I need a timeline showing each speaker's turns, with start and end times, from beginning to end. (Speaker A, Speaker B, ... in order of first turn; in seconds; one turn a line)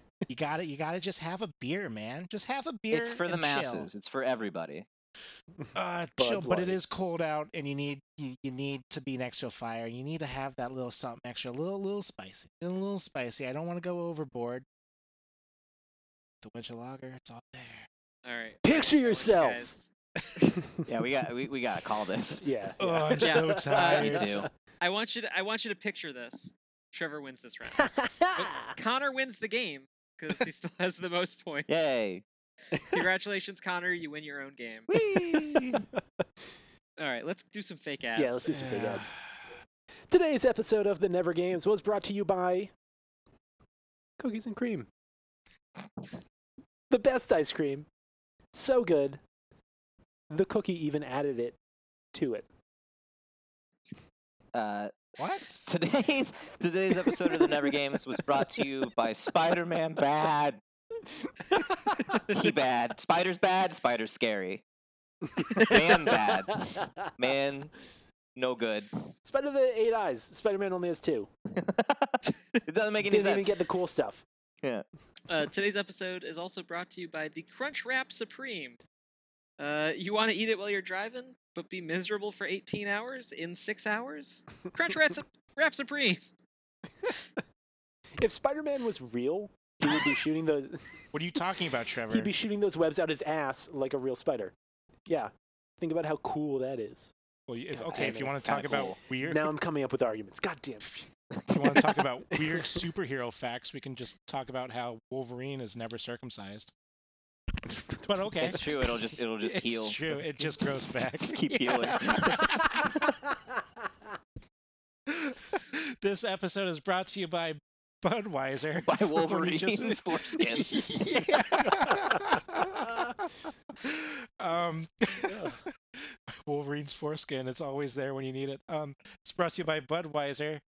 Speaker A: 0.3-3.9
Speaker B: 2.9-4.9
Speaker A: 5.8-14.7
Speaker C: 6.2-6.8
Speaker A: 16.4-17.9
Speaker D: 18.2-19.9
Speaker C: 18.6-19.7
Speaker B: 20.9-22.4
Speaker C: 22.4-24.5
Speaker A: 22.8-24.3
Speaker D: 23.2-24.3
Speaker B: 23.8-24.5
Speaker D: 24.8-27.9
Speaker C: 27.8-28.8
Speaker D: 28.7-31.7
Speaker B: 31.7-32.2
Speaker C: 32.7-33.0
Speaker D: 32.9-34.9
Speaker B: 34.9-35.8
Speaker C: 35.0-36.0
Speaker D: 37.0-38.6
Speaker C: 38.2-39.2
Speaker A: 38.5-39.5
Speaker C: 40.1-42.7
Speaker C: 44.2-44.9
Speaker C: 46.9-47.9
Speaker C: 48.5-49.2
Speaker C: 50.3-51.6
Speaker C: 52.1-52.5
Speaker B: 54.5-60.6
Speaker A: 55.2-55.7
Speaker B: 62.2-64.6
Speaker B: 65.5-67.7
Speaker B: 68.4-68.9
Speaker C: 69.2-71.3
Speaker B: 71.5-73.6
Speaker C: 73.0-74.2
Speaker D: 75.3-78.8
Speaker D: 79.6-86.2
Speaker C: 88.2-91.1
Speaker A: 91.1-92.3
Speaker C: 92.1-94.5
Speaker C: 95.1-97.1
Speaker A: 97.5-99.5
Speaker C: 97.7-98.5
Speaker B: 97.9-99.0
Speaker C: 99.2-101.1
Speaker A: 101.5-106.7
Speaker C: 102.4-102.8
Speaker A: 107.9-113.0
Speaker B: 108.4-110.0
Speaker B: 111.2-112.5
Speaker A: 115.1-130.6
Speaker B: 118.9-120.8
Speaker C: 125.3-125.6